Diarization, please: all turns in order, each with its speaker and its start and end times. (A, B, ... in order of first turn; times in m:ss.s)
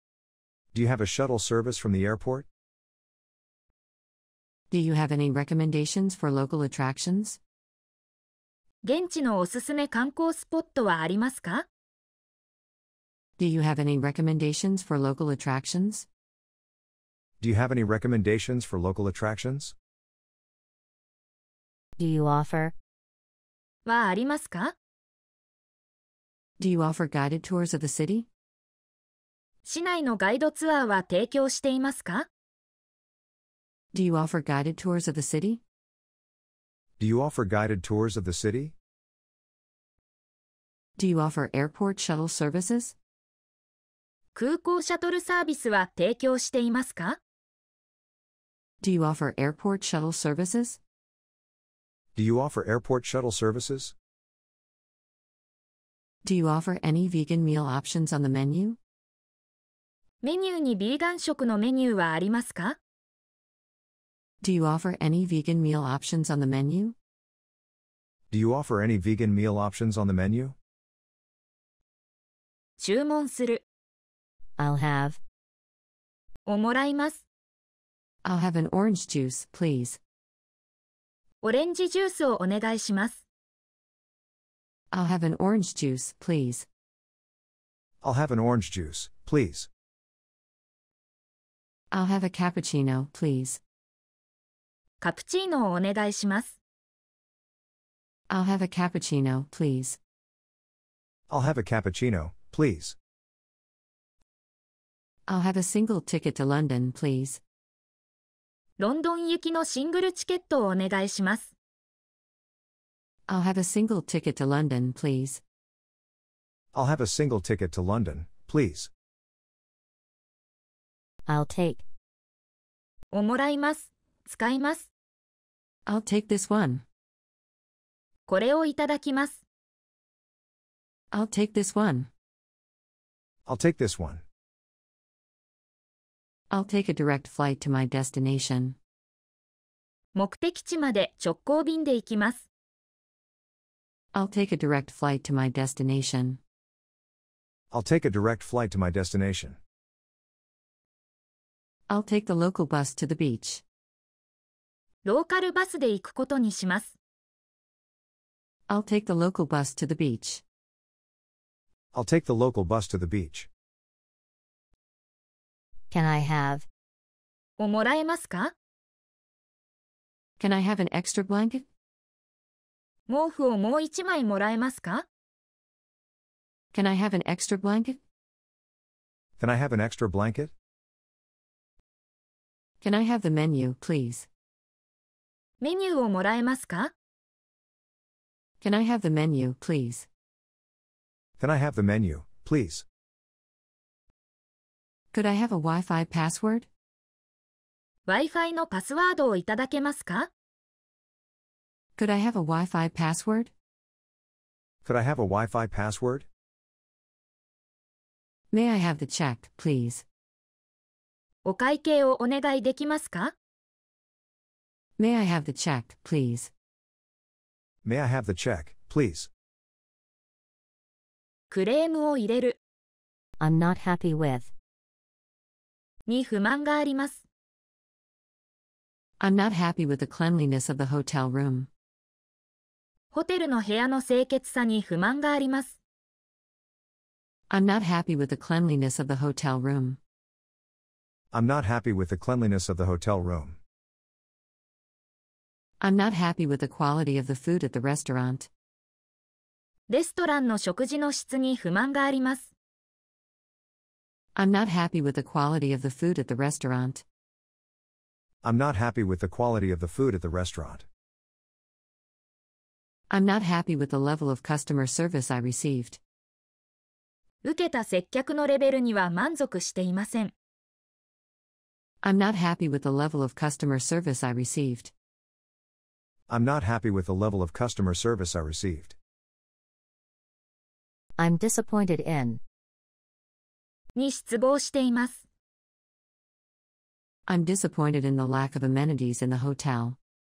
0:00.7-0:02.4 A
0:04.7-0:07.4 B
0:08.8-0:11.6 C
0:13.4-0:16.1 B
0:17.4-0:19.7 A
0:22.0-0:22.7 D
0:23.9-0:24.7 C
0:26.6-0:28.3 B
0:29.6-0:32.3 C
0:33.9-0:35.6 B
0:37.0-0:38.7 A
0:41.0-0:43.0 B
0:44.3-0:47.2 C
0:48.8-0:50.8 B
0:52.1-0:53.9 A
0:56.2-0:58.8 B
1:00.2-1:02.8 C
1:04.4-1:07.0 B
1:08.3-1:10.6 A
1:12.8-1:13.6 C
1:14.6-1:15.2 D
1:16.4-1:17.2 C
1:18.2-1:20.0 B
1:21.4-1:23.2 C
1:24.9-1:26.7 B
1:28.0-1:29.7 A
1:31.9-1:33.6 B
1:35.0-1:36.6 C
1:38.3-1:40.0 B
1:41.3-1:43.0 A
1:45.3-1:47.4 B
1:48.8-1:51.5 C
1:53.3-1:55.4 B
1:56.7-1:58.9 A
2:01.3-2:01.8 D
2:03.1-2:04.9 C
2:05.9-2:06.8 B
2:08.3-2:09.4 C
2:11.1-2:12.1 B
2:13.4-2:14.2 A
2:16.5-2:18.8 B
2:20.1-2:22.4 C
2:24.1-2:26.4 B
2:27.7-2:29.6 A
2:31.9-2:33.6 B
2:35.0-2:37.0 C
2:38.7-2:40.4 B
2:41.9-2:43.5 A
2:45.9-2:46.7 D
2:47.6-2:48.5 C
2:50.4-2:51.7 B
2:53.1-2:55.0 C
2:56.7-2:58.0 B
2:59.4-3:00.5 A
3:02.8-3:04.3 B
3:05.6-3:06.9 C
3:08.6-3:10.1 B
3:11.4-3:12.8 A
3:15.1-3:16.7 B
3:18.1-3:20.3 C
3:22.0-3:23.5 B
3:24.8-3:26.3 A
3:28.5-3:30.0 B
3:31.4-3:33.3 C
3:35.0-3:36.5 B
3:37.8-3:39.3 A
3:41.5-3:42.6 C
3:43.4-3:44.5 D
3:46.1-3:47.2 C
3:49.2-3:51.7 B
3:53.1-3:55.8 C
3:57.5-4:00.0 B
4:01.3-4:03.6 A
4:05.8-4:08.5 B
4:09.9-4:12.5 C
4:14.3-4:17.0 B
4:18.4-4:20.9 A
4:23.1-4:26.0 B
4:27.4-4:30.3 C
4:32.0-4:34.9 B
4:36.3-4:39.0 A
4:41.2-4:42.4 D
4:44.0-4:45.2 C
4:47.3-4:50.0 B